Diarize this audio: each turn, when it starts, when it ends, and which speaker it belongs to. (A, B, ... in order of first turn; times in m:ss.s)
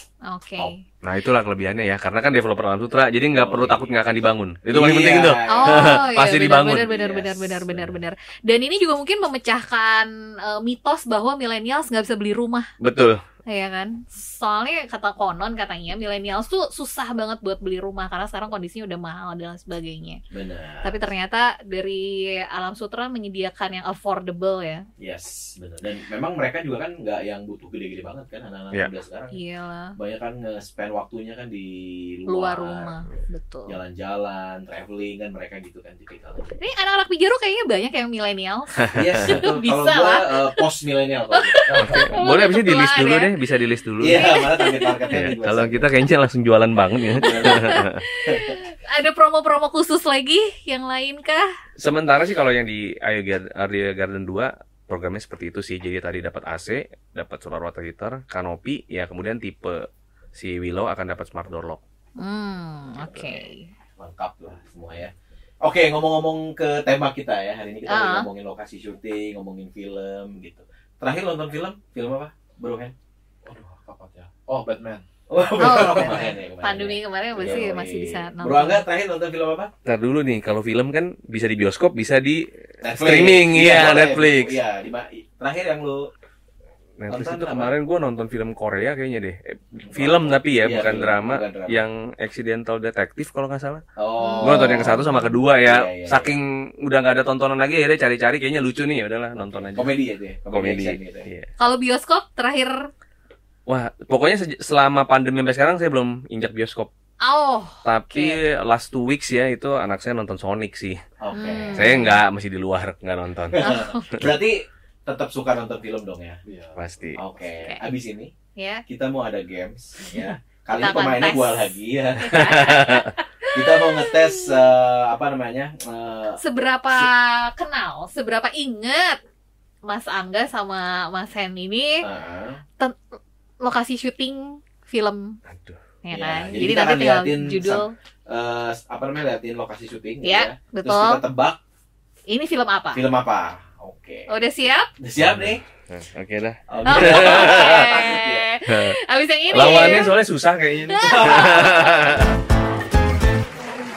0:00.3-0:00.8 A
0:01.0-0:06.9 B
0:03.3-0:04.1 C
0:04.7-0:06.1 C
0:05.5-0:12.7 A
0:06.8-0:08.0 C
0:12.8-0:13.2 B
0:13.5-0:20.2 A
0:20.3-0:21.0 C
0:20.8-0:24.8 A
0:25.0-0:29.4 C
0:29.3-0:30.0 A
0:30.0-0:33.1 C
0:32.3-0:33.8 A
0:33.7-0:36.6 C
0:36.6-0:40.5 A
0:38.9-0:39.4 B
0:38.9-0:41.6 C
0:41.3-0:43.3 A
0:41.7-0:42.2 D
0:41.8-0:44.2 B
0:44.0-0:45.9 C
0:44.1-0:45.1 A
0:45.1-0:48.0 B
0:47.2-0:48.6 C
0:47.2-0:51.5 A
0:51.8-1:01.8 B
1:02.2-1:03.7 A
1:04.0-1:12.9 C
1:07.9-1:08.3 A
1:13.4-1:15.0 D
1:15.3-1:19.7 C
1:15.6-1:18.8 A
1:15.7-1:16.2 D
1:19.8-1:24.6 B
1:22.8-1:26.1 C
1:27.0-1:33.8 B
1:27.1-1:27.7 C
1:29.9-1:31.8 C
1:34.0-1:36.4 C
1:34.2-1:35.1 A
1:34.4-1:39.9 B
1:39.5-1:41.3 C
1:40.5-1:41.5 B
1:41.6-1:42.9 A
1:43.7-1:46.9 B
1:47.2-1:48.4 A
1:47.8-1:51.0 B
1:51.2-1:52.0 C
1:51.3-1:52.2 A
1:51.7-1:53.6 B
1:53.5-1:56.4 C
1:53.6-1:54.1 A
1:56.4-1:56.8 D
1:56.8-1:57.2 B
1:57.2-1:58.3 C
1:58.6-1:58.8 A
1:58.9-2:02.3 C
2:00.8-2:04.5 A
2:02.3-2:03.1 B
2:03.5-2:06.4 C
2:06.4-2:09.2 A
2:09.9-2:12.0 A
2:12.0-2:12.6 C
2:13.6-2:15.4 A
2:15.5-2:15.8 B
2:16.0-2:17.9 A
2:16.1-2:21.6 C
2:20.2-2:21.2 A
2:22.3-2:23.0 A
2:22.9-2:24.3 C
2:24.3-2:24.9 A
2:25.0-2:25.6 C
2:25.2-2:27.9 B
2:26.7-2:28.5 C
2:26.8-2:30.1 A
2:28.7-2:29.0 B
2:29.5-2:30.1 C
2:29.5-2:32.4 B
2:30.9-2:32.2 A
2:31.0-2:31.9 C